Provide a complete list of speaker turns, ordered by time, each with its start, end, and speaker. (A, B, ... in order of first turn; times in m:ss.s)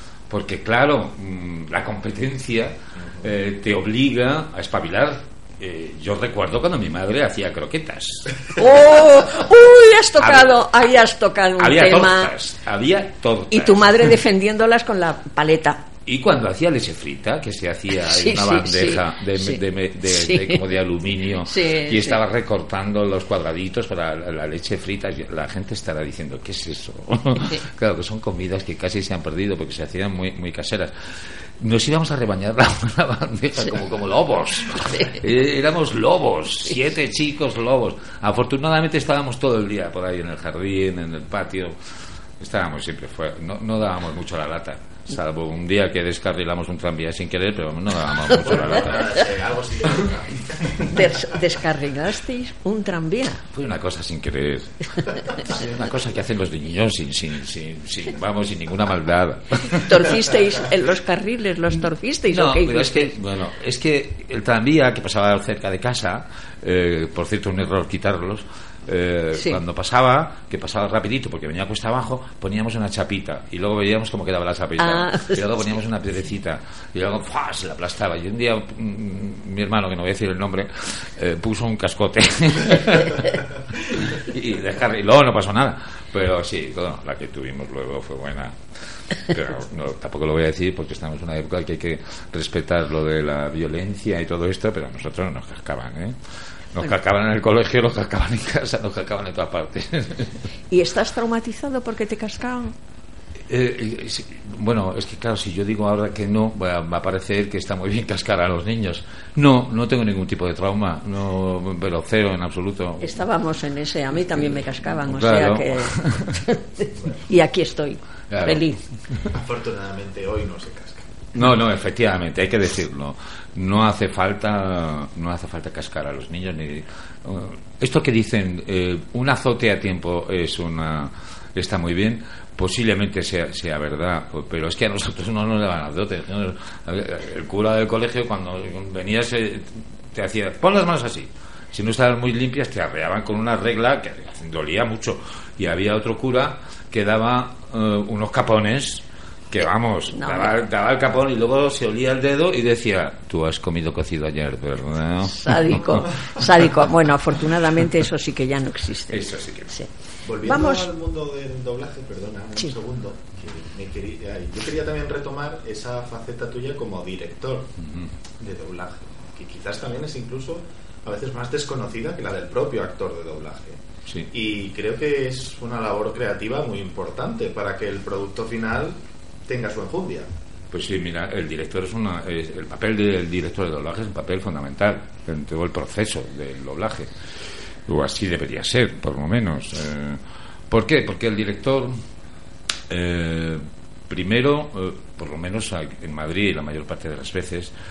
0:00.3-0:08.4 A
0:08.6-0:12.3 B
0:10.2-0:10.7 A
0:11.6-0:14.2 A
0:13.5-0:15.9 B
0:16.1-0:41.8 A
0:17.9-0:20.6 B
0:21.4-0:22.2 B
0:42.4-0:49.3 A
0:48.4-0:50.8 C
0:50.9-0:53.4 B
0:53.5-1:00.2 A
0:59.7-1:03.1 B
1:02.3-1:36.2 A
1:09.4-1:09.6 B
1:14.8-1:15.4 B
1:36.7-1:40.4 A
1:40.7-1:42.8 B
1:43.5-1:53.2 A
1:53.0-1:58.8 B
1:54.3-1:56.4 A
1:58.3-1:59.2 A
1:59.3-2:01.3 C
2:01.4-2:36.7 A
2:30.1-2:30.6 B
2:35.2-2:39.9 B
2:39.1-2:39.8 A
2:40.3-2:47.7 C
2:40.4-2:40.9 B
2:47.8-2:48.1 A
2:48.4-2:53.8 C
2:54.3-2:59.0 C
2:59.5-3:00.3 C
3:00.7-3:07.2 A
3:07.9-3:12.0 A
3:12.9-3:17.7 A